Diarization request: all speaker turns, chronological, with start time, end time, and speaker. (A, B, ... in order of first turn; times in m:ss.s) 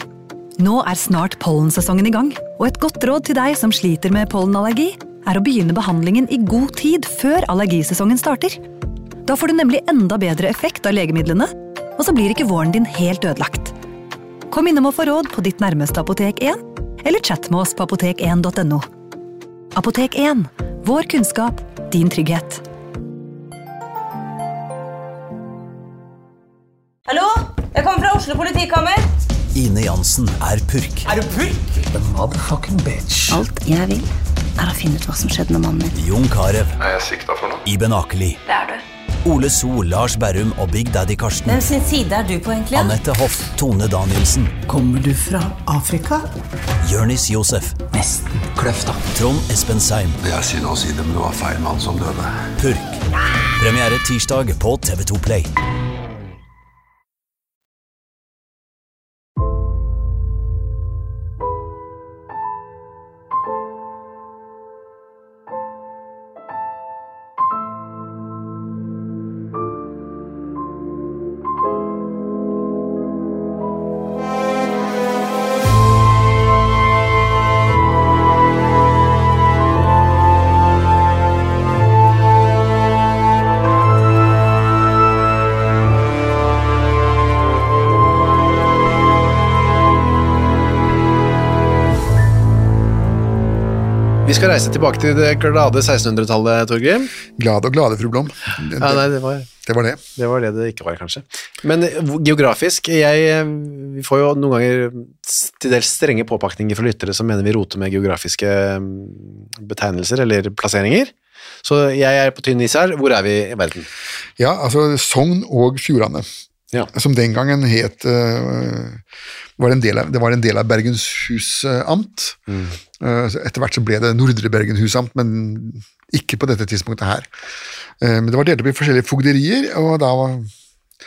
0:00.6-0:08.6 A
0:09.2-0:13.7 A
0:14.5-0:18.9 A
0:19.7-0:22.6 A
0:27.1-0:29.0 B
0:29.5-0:31.1 C
0:31.1-0:31.8 B
0:31.9-0:33.4 D
0:33.3-0:35.9 E
0:35.9-0:36.8 C
0:36.8-0:37.6 F
0:37.6-0:38.4 C
0:38.5-0:38.8 B
0:39.2-0:41.7 C
0:41.5-0:43.0 B
0:42.7-0:44.6 C
0:44.7-0:46.1 D
0:46.8-0:47.8 C
0:47.9-0:49.1 D
0:49.1-0:50.2 C
0:50.2-0:52.4 F
0:52.6-0:53.0 C
0:53.6-0:55.5 C
1:34.2-1:37.1 G
1:37.3-1:39.1 H
1:38.8-1:39.5 G
1:39.6-1:40.0 H
1:40.2-1:51.1 G
1:51.6-1:53.9 G
1:54.4-1:56.2 H
1:56.9-1:59.0 H
1:59.6-2:02.4 H
2:02.5-2:02.8 G
2:03.0-2:07.3 H
2:08.0-2:10.5 H